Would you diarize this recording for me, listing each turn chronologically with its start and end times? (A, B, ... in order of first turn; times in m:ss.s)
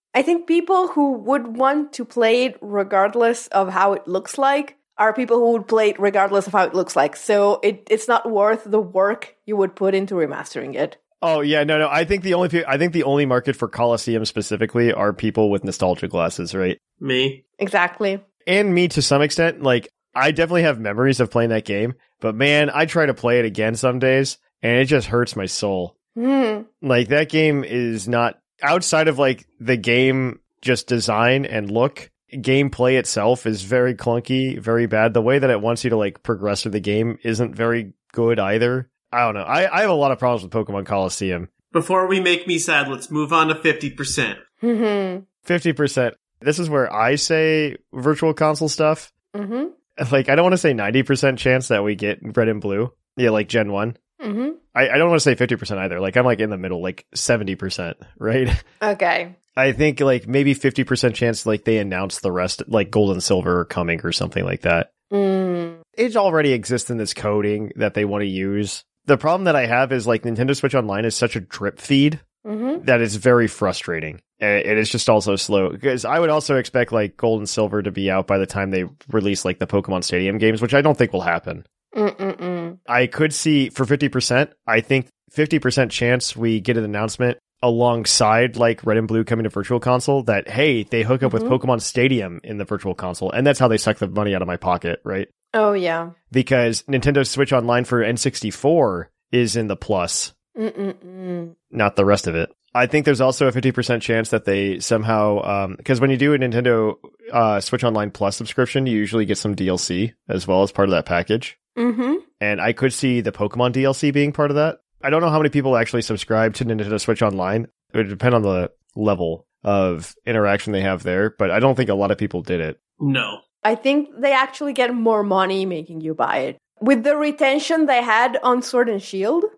0:00.1-0:11.0 A
0:11.2-0:16.8 B
0:17.0-0:17.4 C
0:17.6-0:18.2 A
0:18.5-0:25.9 B
0:26.2-0:26.7 A
0:26.8-0:41.5 B
0:41.7-0:44.4 C
0:44.6-0:45.2 A
0:45.5-0:49.1 B
0:49.3-0:49.7 A
0:50.0-0:54.0 B
0:54.2-0:54.6 A
0:54.7-0:58.6 B
0:58.8-0:59.4 A
0:59.6-1:04.9 B
1:05.1-1:05.8 A
1:06.0-1:12.2 B
1:12.4-1:12.8 A
1:12.8-1:21.6 B
1:21.9-1:22.8 A
1:22.9-1:35.3 B
1:31.2-1:31.6 A
1:35.5-1:36.1 A
1:36.3-1:40.3 B
1:40.6-1:41.6 A
1:41.7-1:51.6 B
1:51.8-1:52.2 A
1:52.4-2:02.8 B
2:03.0-2:03.4 C
2:03.6-2:09.5 A